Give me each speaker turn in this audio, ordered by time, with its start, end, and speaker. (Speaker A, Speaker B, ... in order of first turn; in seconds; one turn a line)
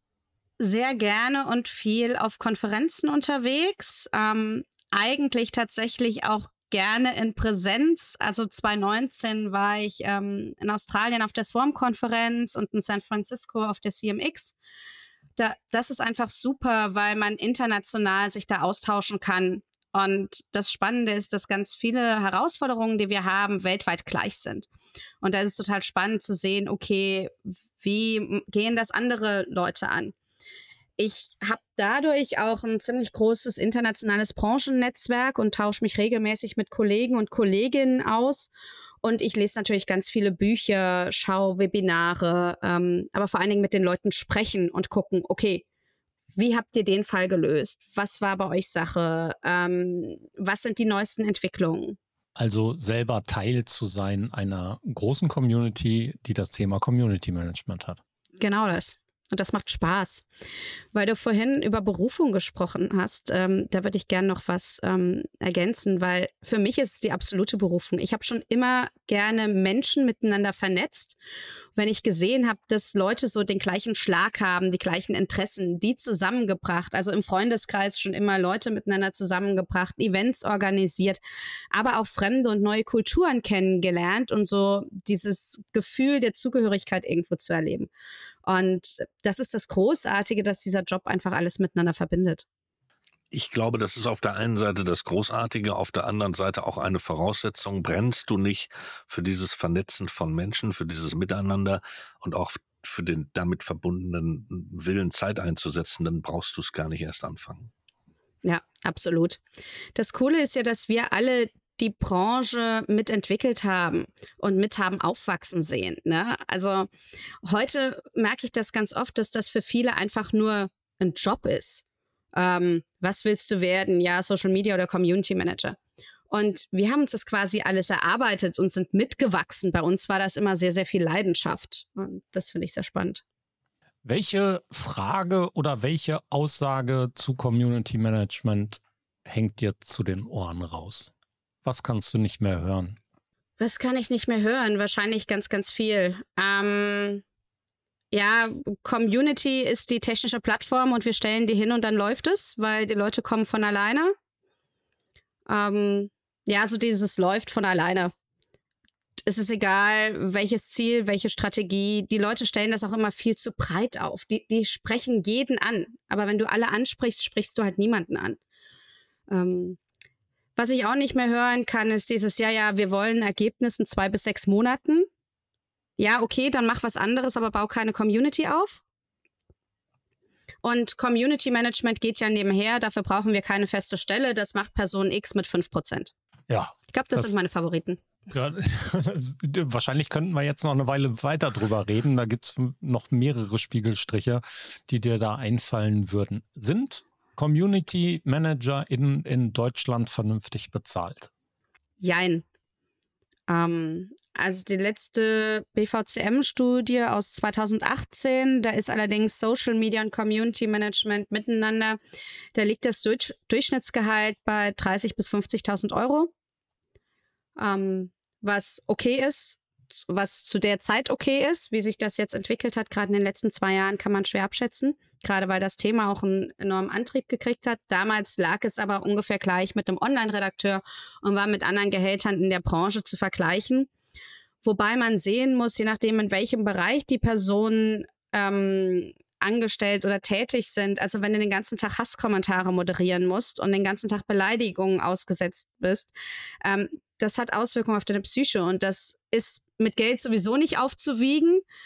Speaker A: 0.6-14.6
Speaker A: 15.4-24.7
Speaker A: 25.2-30.1
Speaker A: 31.0-38.5
Speaker A: 39.0-45.6
Speaker A: 46.4-52.0
Speaker B: 52.4-58.0
Speaker A: 58.4-60.3
Speaker A: 60.9-71.2
Speaker A: 71.8-81.2
Speaker A: 81.7-87.9
Speaker A: 88.4-92.5
Speaker C: 93.3-107.7
Speaker A: 108.4-109.4
Speaker A: 110.0-116.9
Speaker A: 117.4-125.8
Speaker A: 126.3-133.2
Speaker B: 134.0-141.1
Speaker B: 141.7-143.0
Speaker A: 143.6-147.2
Speaker A: 148.1-154.2
Speaker A: 155.5-158.1
Speaker A: 159.2-168.4
Speaker A: 169.3-169.8
Speaker A: 170.6-175.1
Speaker A: 176.0-178.8
Speaker A: 180.6-186.1
Speaker B: 186.5-187.3
Speaker A: 186.9-188.0
Speaker B: 188.3-201.3
Speaker A: 202.0-202.4
Speaker A: 203.5-212.0
Speaker A: 212.5-216.3
Speaker A: 217.6-233.9
Speaker A: 234.6-251.6